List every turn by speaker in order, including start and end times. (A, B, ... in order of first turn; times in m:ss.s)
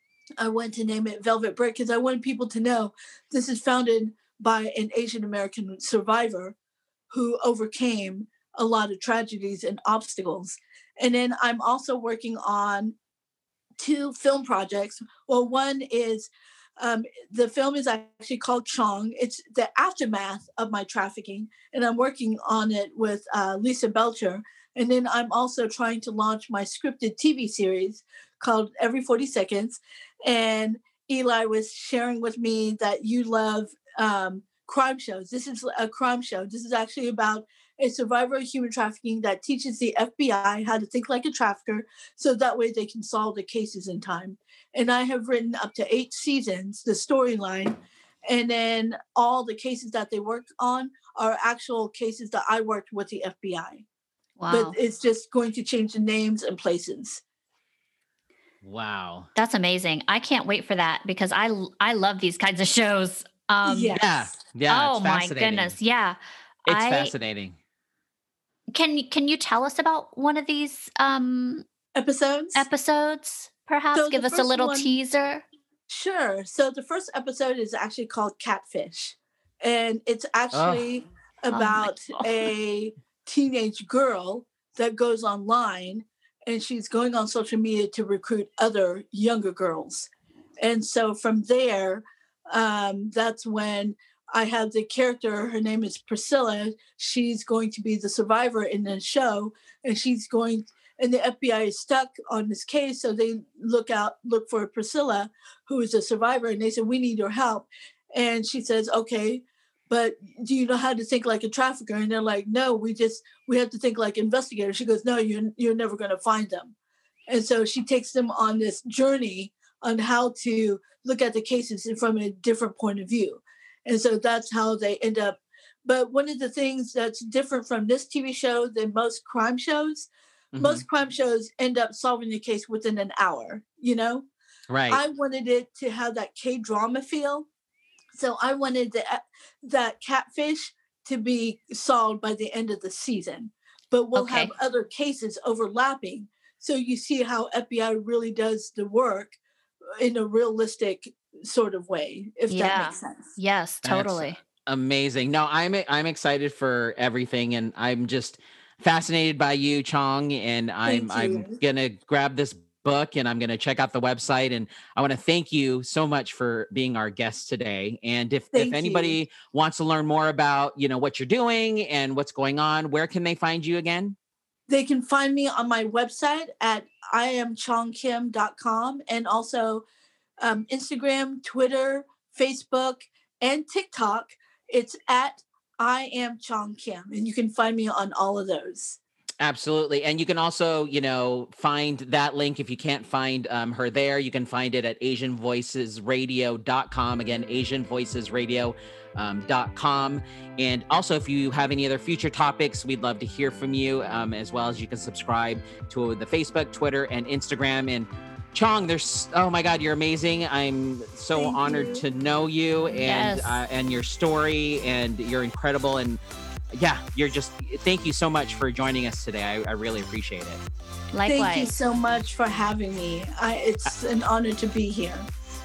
0:00.4-0:06.6 A
0:07.1-0:13.0 A
0:13.8-0:53.8 A
0:54.4-0:54.8 B
0:54.5-0:57.2 A
0:58.6-0:59.3 C
0:59.4-1:04.1 B
1:03.6-1:04.1 A
1:04.0-1:05.8 C
1:04.7-1:07.1 B
1:06.7-1:07.6 C
1:08.7-1:11.6 B
1:12.0-1:12.7 A
1:12.6-1:15.5 B
1:13.9-1:14.9 A
1:15.9-1:56.7 A
1:20.5-1:20.9 C
1:21.5-1:22.5 B
1:57.3-2:14.3 A
2:10.5-2:10.8 C
2:14.7-2:15.0 C
2:14.9-2:17.5 A
2:18.1-2:29.4 A
2:24.2-2:24.5 B
2:30.0-2:33.3 A
2:32.5-2:34.4 B
2:33.8-2:54.2 C
2:40.9-2:41.6 A
2:48.5-2:49.2 A
2:54.7-2:59.9 A
3:00.4-3:09.0 A
3:09.4-3:36.2 C
3:31.4-3:32.0 A
3:33.0-3:33.6 B
3:36.8-3:40.6 C
3:41.1-3:41.7 B
3:41.3-3:45.3 A